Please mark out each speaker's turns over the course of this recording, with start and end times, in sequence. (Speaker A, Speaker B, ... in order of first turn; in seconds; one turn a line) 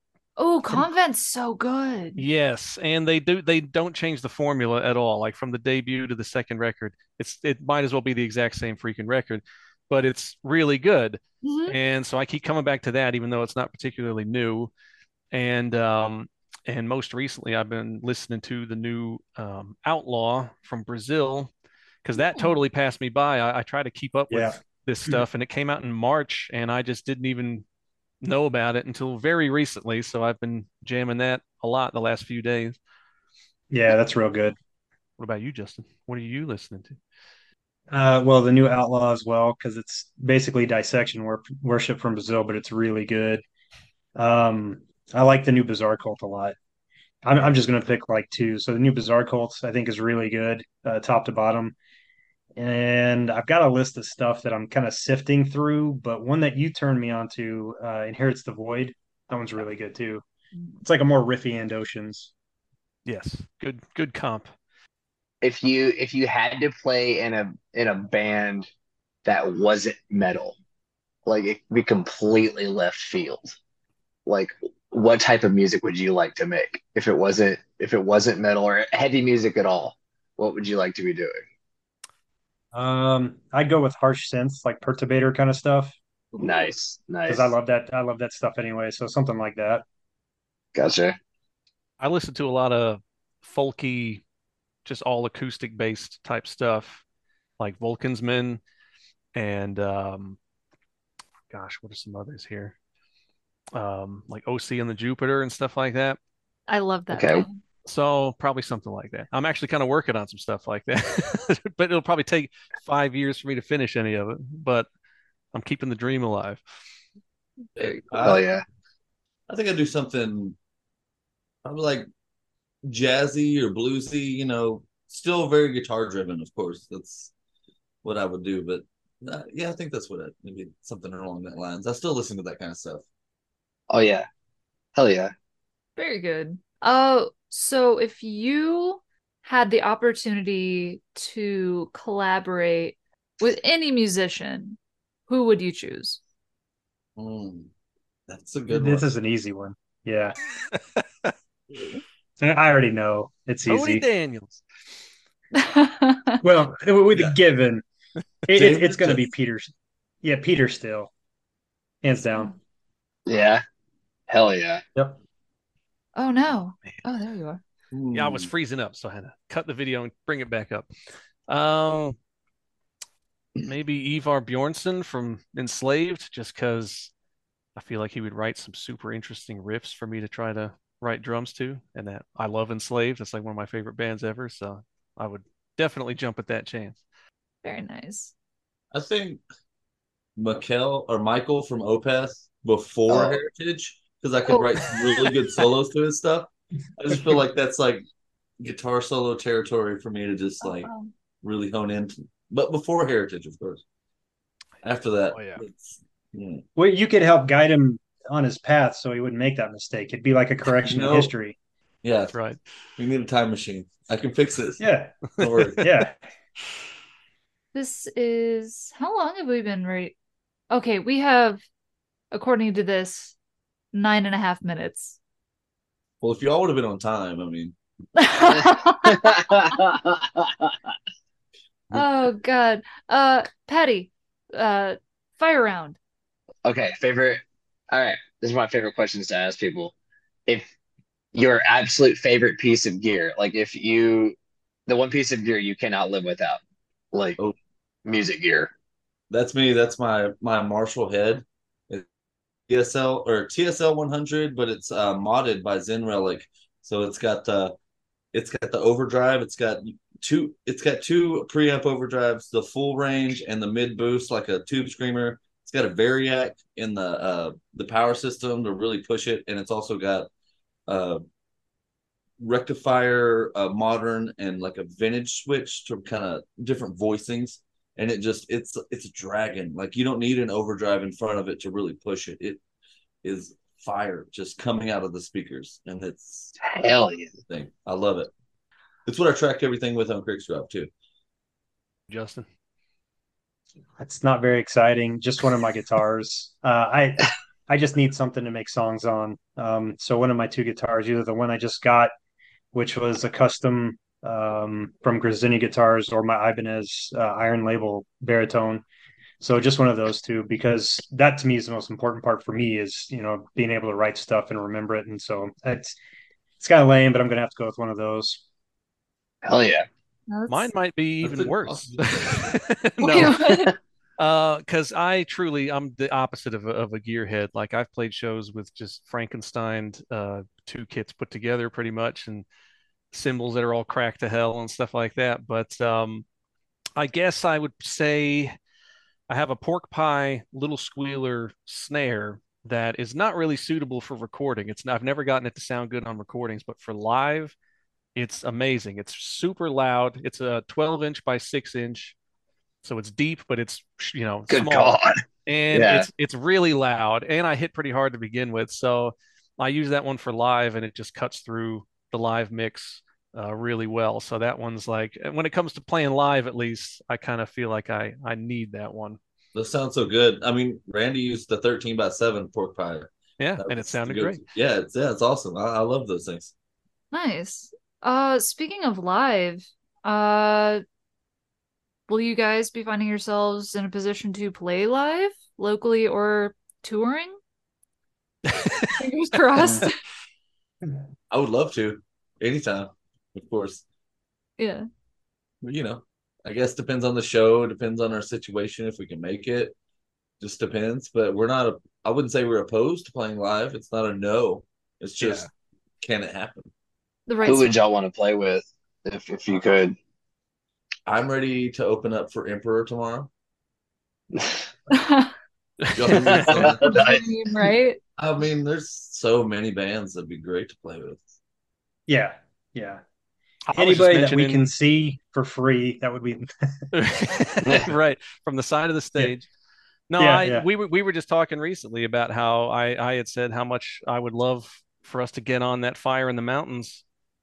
Speaker A: 0.4-2.2
Speaker B: 2.2-14.7
Speaker A: 11.4-11.8
Speaker B: 15.3-21.5
Speaker B: 22.1-27.6
Speaker A: 22.2-22.5
Speaker C: 24.3-24.6
Speaker B: 28.2-32.8
Speaker C: 33.7-34.6
Speaker B: 35.2-37.0
Speaker C: 37.9-43.4
Speaker C: 44.2-46.6
Speaker C: 47.2-51.8
Speaker C: 52.6-60.2
Speaker C: 60.8-62.3
Speaker B: 63.1-64.5
Speaker D: 65.4-68.7
Speaker D: 69.2-70.6
Speaker D: 71.3-73.6
Speaker D: 74.3-81.4
Speaker C: 82.7-86.0
Speaker D: 86.4-87.5
Speaker C: 87.3-89.8
Speaker D: 90.7-91.2
Speaker B: 92.0-94.2
Speaker B: 94.8-97.0
Speaker B: 97.6-98.6
Speaker B: 99.3-100.4
Speaker B: 101.5-102.8
Speaker B: 103.8-106.2
Speaker A: 106.7-107.6
Speaker D: 107.1-107.5
Speaker B: 107.9-114.9
Speaker B: 115.5-116.8
Speaker E: 117.8-118.5
Speaker D: 117.8-118.6
Speaker E: 119.5-120.6
Speaker E: 121.6-122.1
Speaker E: 122.8-127.3
Speaker E: 128.0-133.1
Speaker D: 133.9-134.3
Speaker D: 135.0-135.3
Speaker A: 136.0-146.2
Speaker E: 147.2-147.7
Speaker E: 148.3-149.1
Speaker C: 148.7-150.4
Speaker B: 151.0-151.3
Speaker C: 152.4-154.1
Speaker B: 153.7-154.6
Speaker A: 155.6-156.4
Speaker C: 156.4-157.8
Speaker E: 157.1-157.4
Speaker C: 158.5-161.1
Speaker E: 158.5-159.2
Speaker C: 162.0-162.5
Speaker D: 163.3-163.6
Speaker D: 164.3-164.8
Speaker A: 166.2-167.6
Speaker E: 167.9-168.5
Speaker B: 168.1-170.9
Speaker B: 171.5-172.2
Speaker B: 173.6-177.1
Speaker B: 177.8-187.0
Speaker A: 187.6-188.3
Speaker E: 188.9-189.4
Speaker E: 190.4-198.1
Speaker D: 193.1-193.4
Speaker E: 198.6-203.8
Speaker A: 200.6-201.1
Speaker E: 204.8-206.7
Speaker B: 205.3-205.6
Speaker C: 206.8-211.6
Speaker E: 210.8-211.3
Speaker E: 212.0-212.4
Speaker B: 212.3-212.6
Speaker E: 213.0-214.8
Speaker C: 214.8-215.2
Speaker E: 215.4-215.8
Speaker B: 215.4-215.9
Speaker C: 215.8-216.2
Speaker A: 217.7-220.2
Speaker A: 220.7-221.6
Speaker A: 222.3-223.3
Speaker A: 223.9-225.2
Speaker E: 226.2-227.8
Speaker A: 228.2-229.5
Speaker D: 228.5-230.7
Speaker A: 231.9-236.0
Speaker D: 236.7-239.9
Speaker D: 241.3-244.4
Speaker D: 244.9-246.6
Speaker D: 247.1-247.4
Speaker D: 248.1-248.7
Speaker E: 249.3-252.1
Speaker E: 252.7-257.8
Speaker E: 258.3-270.3
Speaker E: 270.9-271.2
Speaker E: 272.4-282.6
Speaker E: 283.2-286.6
Speaker D: 286.6-287.3
Speaker E: 287.5-288.3
Speaker E: 289.1-290.9
Speaker B: 292.1-292.5
Speaker C: 294.0-302.1
Speaker C: 302.7-308.9
Speaker C: 309.4-316.0
Speaker C: 316.6-318.4
Speaker D: 319.4-319.9
Speaker A: 320.3-320.7
Speaker B: 320.5-323.4
Speaker E: 321.2-322.6
Speaker A: 323.1-323.7
Speaker B: 324.2-332.5
Speaker B: 333.1-336.2
Speaker B: 337.0-338.6
Speaker B: 339.3-347.6
Speaker B: 348.1-352.2
Speaker B: 352.8-369.2
Speaker D: 354.5-356.1
Speaker E: 369.6-376.5
Speaker B: 373.4-374.4
Speaker A: 377.1-380.8
Speaker A: 382.1-387.4
Speaker B: 388.5-389.0
Speaker A: 389.0-390.0
Speaker E: 391.3-393.8
Speaker A: 394.6-394.9
Speaker E: 395.6-399.8
Speaker E: 400.4-405.5
Speaker E: 406.0-406.7
Speaker A: 407.3-407.7
Speaker D: 407.4-410.0
Speaker E: 411.1-413.3
Speaker D: 414.3-414.7
Speaker A: 414.9-415.3
Speaker B: 415.9-416.7
Speaker E: 415.9-417.0
Speaker D: 416.1-417.2
Speaker A: 416.8-418.0
Speaker E: 418.2-421.2
Speaker C: 422.1-423.0
Speaker B: 423.7-424.7
Speaker C: 423.7-426.8
Speaker B: 426.9-429.5
Speaker B: 430.1-437.0
Speaker C: 430.2-430.7